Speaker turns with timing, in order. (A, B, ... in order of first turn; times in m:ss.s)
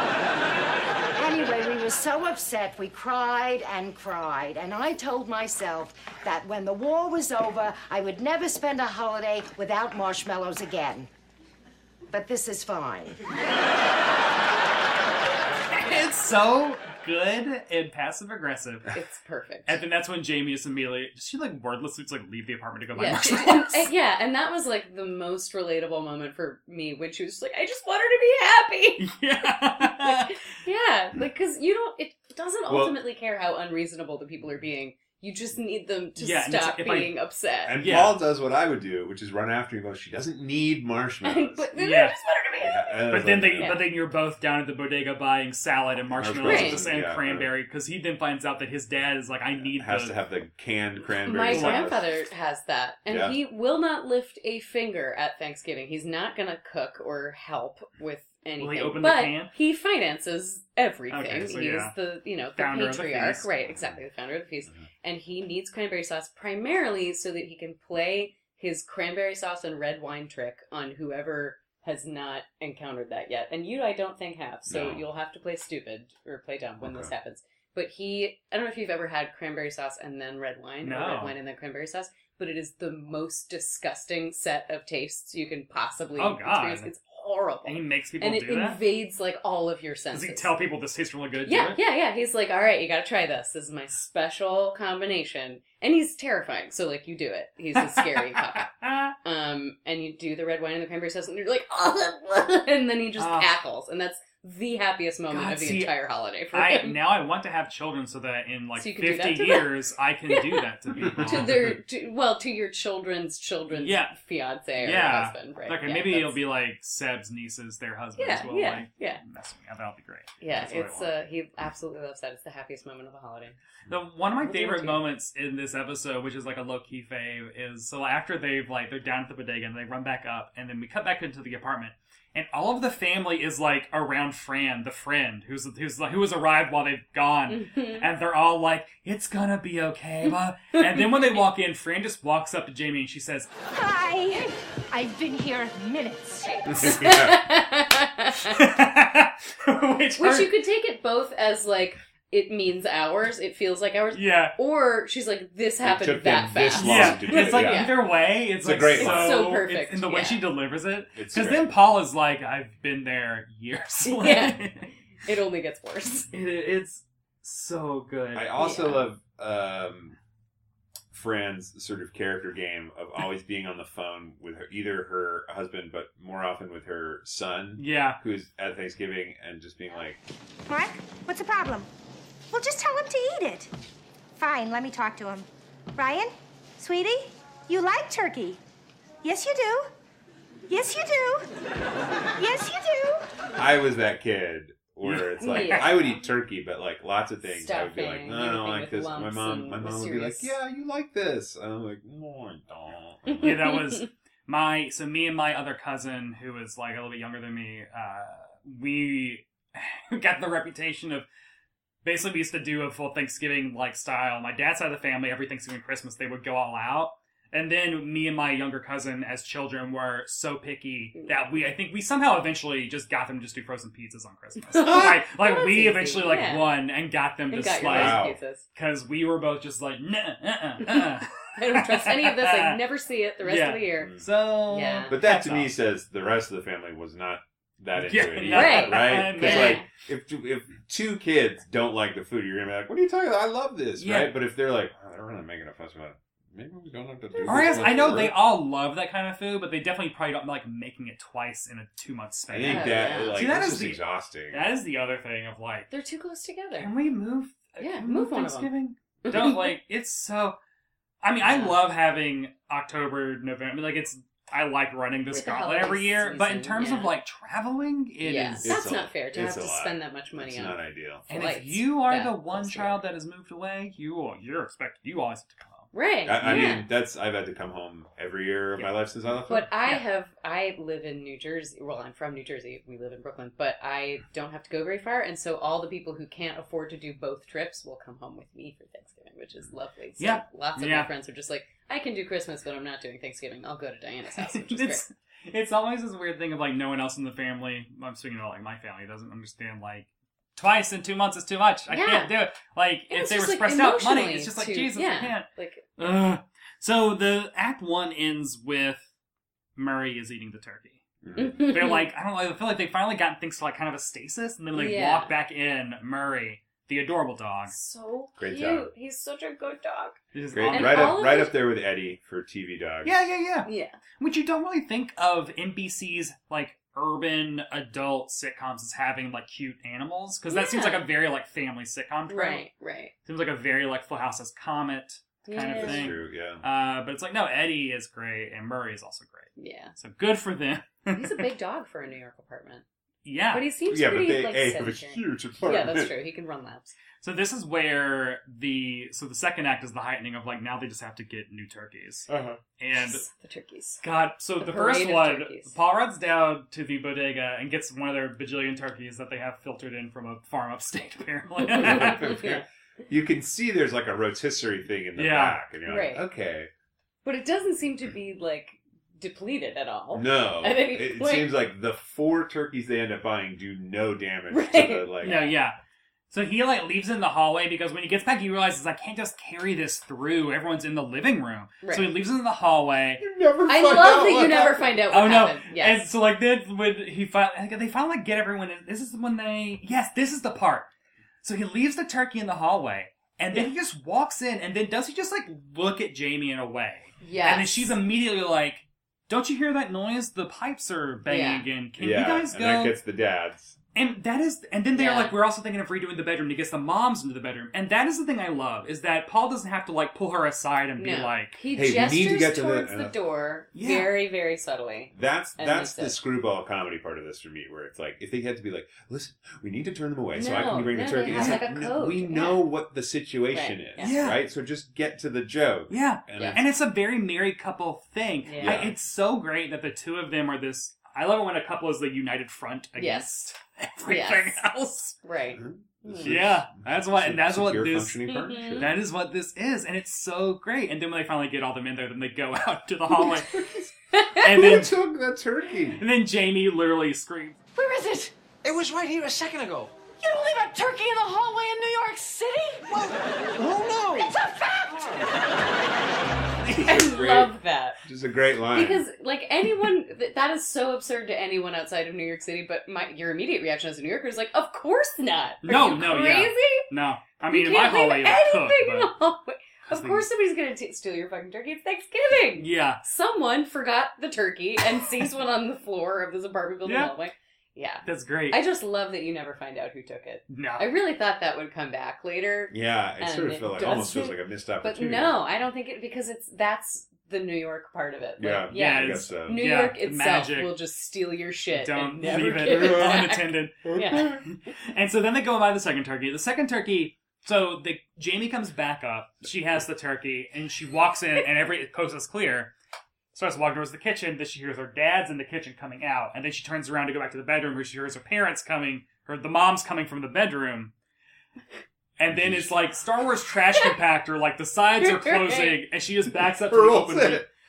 0:01.1-0:11.1 A
0:12.1-0:13.2 A
0:15.7-0:18.9 B
0:18.9-0:19.8 C
0:19.7-0:23.9 B
0:22.9-0:29.1 C
0:29.0-0:30.4 B
0:29.8-0:37.8 C
0:32.7-0:33.0 D
0:36.2-0:37.1 B
0:37.6-0:41.7 D
0:37.8-0:38.2 B
0:41.2-0:43.9 C
0:41.8-0:42.2 B
0:42.6-0:43.8 D
0:43.1-0:50.2 B
0:46.1-0:47.5 D
0:46.4-0:46.9 C
0:49.6-0:52.1 D
0:51.0-1:30.5 C
0:51.5-0:51.9 B
0:53.1-0:53.4 D
0:58.6-0:59.5 B
1:01.1-1:01.9 B
1:02.6-1:03.5 B
1:03.7-1:04.0 D
1:14.7-1:15.0 D
1:16.8-1:17.1 D
1:20.8-1:21.4 B
1:26.2-1:26.9 B
1:27.6-1:28.8 B
1:30.1-1:31.8 B
1:31.4-1:38.7 C
1:37.7-1:39.1 B
1:39.2-1:47.0 C
1:43.2-1:43.5 B
1:45.3-1:45.9 B
1:46.5-1:51.7 B
1:48.8-1:49.7 C
1:50.3-1:56.4 C
1:51.1-1:51.6 D
1:53.7-1:54.2 B
1:54.8-2:01.1 B
1:58.2-1:59.2 C
2:00.4-2:03.6 C
2:03.9-2:23.5 B
2:04.4-2:05.0 C
2:17.5-2:18.1 C
2:20.7-2:21.3 C
2:23.7-2:26.7 E
2:26.5-2:28.6 C
2:26.7-2:27.4 D
2:28.5-2:30.5 B
2:30.2-2:38.0 C
2:34.1-2:34.5 B
2:35.8-2:38.0 D
2:36.8-2:44.9 B
2:38.6-2:39.5 D
2:38.9-2:40.4 C
2:41.1-2:41.7 D
2:44.0-2:44.7 C
2:45.2-2:46.3 C
2:46.3-2:48.5 B
2:48.3-2:50.2 D
2:48.6-2:49.1 C
2:51.1-3:00.2 D
2:57.8-2:58.2 B
3:00.7-3:01.9 E
3:02.5-3:03.7 E
3:04.4-3:08.6 E
3:09.2-3:09.9 E
3:10.7-3:11.5 E
3:12.4-3:13.2 E
3:13.6-3:23.6 D
3:15.0-3:16.0 B
3:15.4-3:16.2 C
3:17.4-3:20.5 C
3:23.3-3:24.0 C
3:23.4-3:31.2 B
3:32.0-3:48.2 B
3:44.7-3:46.7 C
3:47.5-3:48.6 C
3:47.7-3:48.4 D
3:48.7-3:52.8 B
3:51.6-3:54.1 C
3:53.4-3:55.7 B
3:54.0-3:54.3 D
3:54.7-3:55.1 C
3:55.1-4:08.4 D
3:58.0-3:59.8 B
3:58.4-3:59.8 C
4:04.0-4:04.3 B
4:07.3-4:08.3 C
4:07.4-4:15.9 B
4:12.5-4:14.7 D
4:12.6-4:13.4 C
4:15.9-4:16.9 C
4:16.7-4:20.6 B
4:17.8-4:18.7 C
4:19.2-4:19.7 C
4:21.2-4:28.8 B
4:21.4-4:21.8 C
4:25.3-4:27.1 C
4:28.2-4:33.0 C
4:28.6-4:31.3 D
4:31.3-4:36.8 B
4:35.9-4:36.8 C
4:36.2-4:39.7 D
4:39.5-4:55.0 C
4:50.2-4:51.1 B
4:54.3-5:09.0 B
5:01.9-5:02.3 C
5:03.1-5:05.8 C
5:09.8-5:11.0 B
5:11.2-5:11.6 D
5:11.4-5:12.1 C
5:11.7-5:17.7 B
5:14.7-5:15.3 C
5:17.7-5:21.6 C
5:18.4-5:18.9 D
5:20.3-5:21.2 B
5:20.5-5:23.1 D
5:23.0-5:32.6 B
5:23.6-5:24.0 C
5:30.5-5:31.1 C
5:32.3-5:33.1 C
5:33.2-5:41.5 B
5:35.4-5:36.2 C
5:35.7-5:36.6 D
5:39.6-5:39.9 C
5:41.1-5:42.8 C
5:43.2-5:43.7 B
5:43.5-5:46.9 C
5:43.9-5:46.1 D
5:47.2-5:53.2 B
5:52.3-5:52.6 D
5:52.9-5:54.0 C
5:54.0-6:02.3 B
5:54.6-5:55.7 C
6:01.7-6:06.7 D
6:01.7-6:02.6 C
6:05.2-6:05.6 B
6:05.9-6:06.2 C
6:07.2-6:11.5 C
6:10.1-6:15.4 D
6:14.5-6:15.6 C
6:15.2-6:15.8 B
6:16.3-6:23.2 B
6:21.8-6:22.1 C
6:23.2-6:25.0 D
6:23.6-6:26.0 C
6:25.1-6:30.9 B
6:31.4-6:43.0 B
6:37.2-6:37.9 C
6:41.2-6:41.6 C
6:42.0-6:43.8 D
6:43.9-6:51.6 B
6:44.9-6:45.4 C
6:51.0-6:56.2 C
6:51.7-6:53.1 D
6:53.7-6:54.1 B
6:55.1-7:06.6 D
7:00.3-7:02.6 C
7:01.3-7:01.6 B
7:03.5-7:04.2 C
7:04.0-7:04.4 B
7:05.9-7:15.2 B
7:06.3-7:06.6 C
7:08.4-7:08.8 C
7:08.6-7:09.0 D
7:13.0-7:13.4 C
7:14.1-7:14.6 C
7:15.2-7:16.4 C
7:15.5-7:18.9 D
7:16.2-7:18.2 B
7:18.3-7:18.9 C
7:18.8-7:23.5 B
7:23.5-7:23.9 D
7:24.1-7:24.5 C
7:24.4-7:25.0 B
7:24.4-7:26.0 D
7:26.0-7:27.6 B
7:27.7-7:28.3 F
7:28.6-7:30.0 G
7:30.1-7:32.9 F
7:32.9-7:34.4 G
7:34.2-7:35.6 F
7:36.6-7:39.0 D
7:36.8-7:38.0 C
7:38.7-7:46.9 C
7:45.6-7:49.1 B
7:47.5-8:14.4 C
7:49.9-7:50.2 B
7:52.6-7:53.0 B
7:56.8-7:57.1 B
7:58.0-7:58.6 B
8:00.5-8:00.9 B
8:02.7-8:05.3 D
8:08.4-8:09.6 D
8:08.7-8:10.8 B
8:11.7-8:22.7 B
8:12.3-8:13.3 D
8:13.8-8:14.4 D
8:23.3-8:30.9 B
8:32.2-8:37.4 B
8:32.3-8:32.7 D
8:35.0-8:35.8 C
8:36.7-8:37.4 D